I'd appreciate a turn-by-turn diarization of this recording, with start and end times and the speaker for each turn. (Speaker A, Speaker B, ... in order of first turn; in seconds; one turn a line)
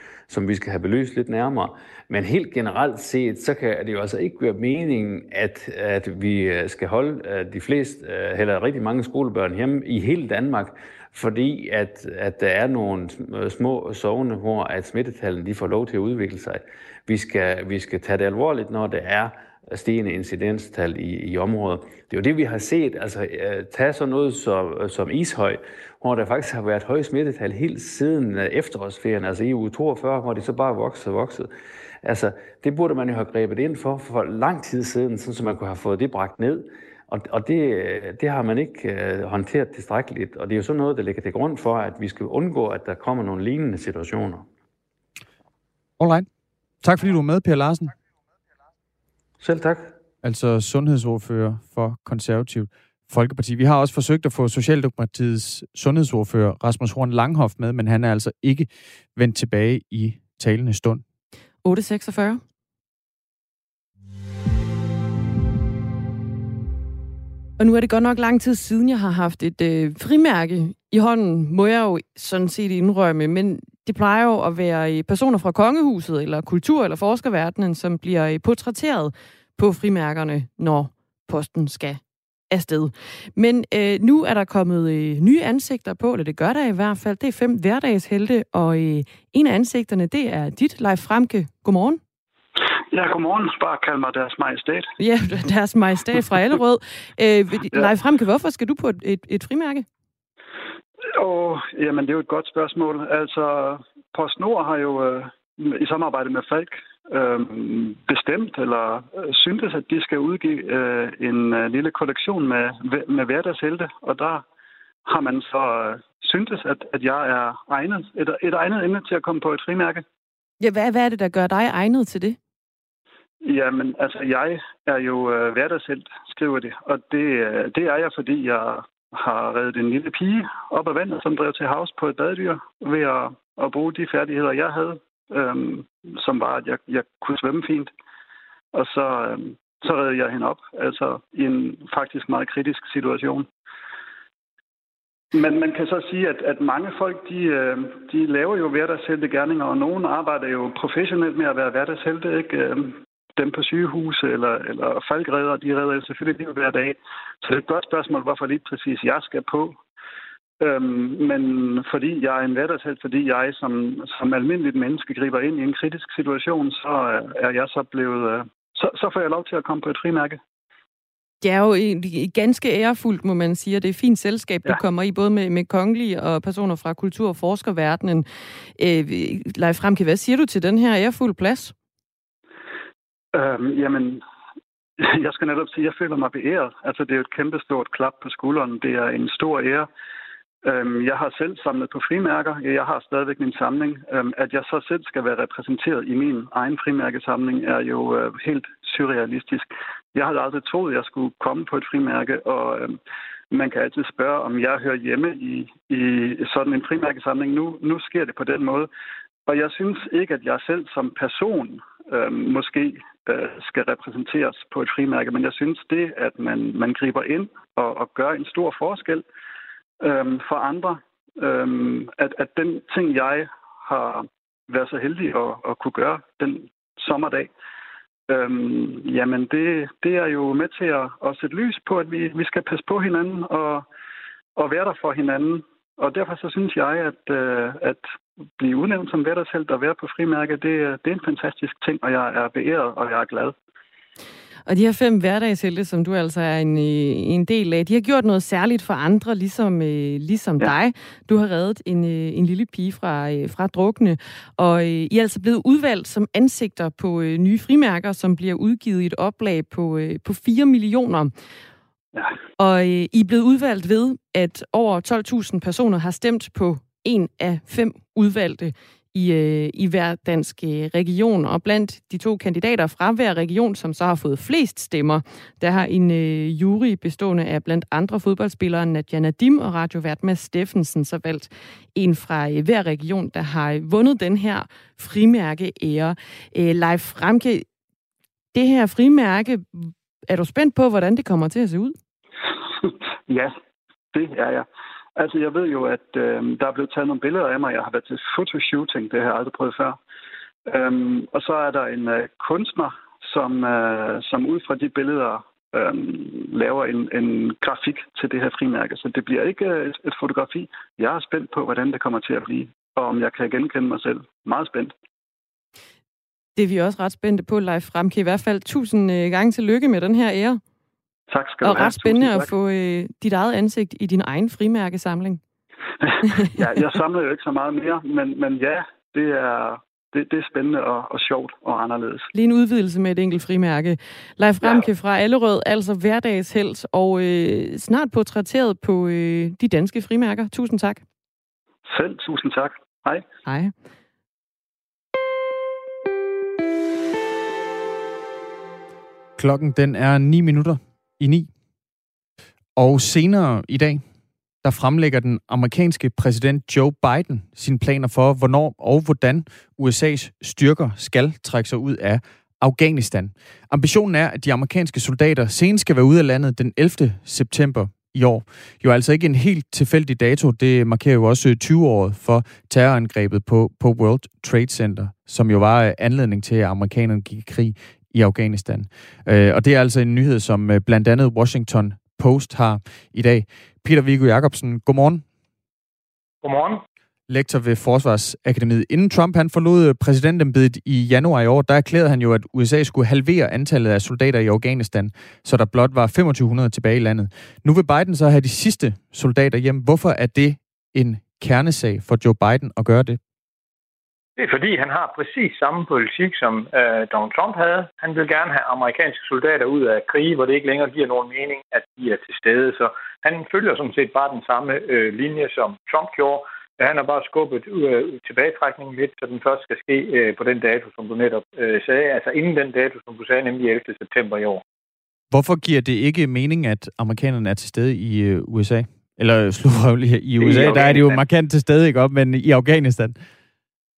Speaker A: 0.3-31.5
Speaker A: 32.0-44.5
Speaker B: 46.0-46.3
Speaker B: 46.8-47.9
Speaker A: 49.4-49.9
Speaker B: 50.2-61.0
Speaker C: 61.6-62.4
Speaker C: 67.6-92.0
Speaker D: 92.9-94.9
Speaker C: 95.0-99.8
Speaker D: 101.2-114.4
Speaker D: 115.0-120.0
Speaker C: 120.6-122.4
Speaker D: 123.4-137.9
Speaker D: 138.7-143.5
Speaker D: 145.3-159.8
Speaker D: 160.6-170.4
Speaker C: 171.4-178.2
Speaker C: 178.8-181.7
Speaker D: 183.3-184.2
Speaker D: 185.0-189.9
Speaker D: 190.6-203.0
Speaker D: 203.5-208.9
Speaker D: 209.4-219.2
Speaker D: 220.0-227.5
Speaker D: 228.3-233.8
Speaker D: 234.6-238.1
Speaker D: 238.6-243.5
Speaker C: 244.7-261.3
Speaker C: 262.6-287.6
Speaker C: 288.5-292.0
Speaker D: 293.3-293.5
Speaker D: 294.1-294.6
Speaker D: 295.2-300.0
Speaker D: 300.7-314.9
Speaker C: 316.6-320.6
Speaker D: 321.3-322.5
Speaker C: 321.6-325.4
Speaker D: 326.0-332.3
Speaker C: 332.3-341.0
Speaker D: 334.6-334.9
Speaker D: 341.9-343.2
Speaker C: 343.4-343.7
Speaker B: 349.4-351.5
Speaker B: 352.8-354.0
Speaker B: 354.6-385.2
Speaker E: 386.4-386.8
Speaker B: 387.3-403.2
Speaker E: 404.4-424.6
Speaker B: 425.3-433.2
Speaker E: 430.4-431.1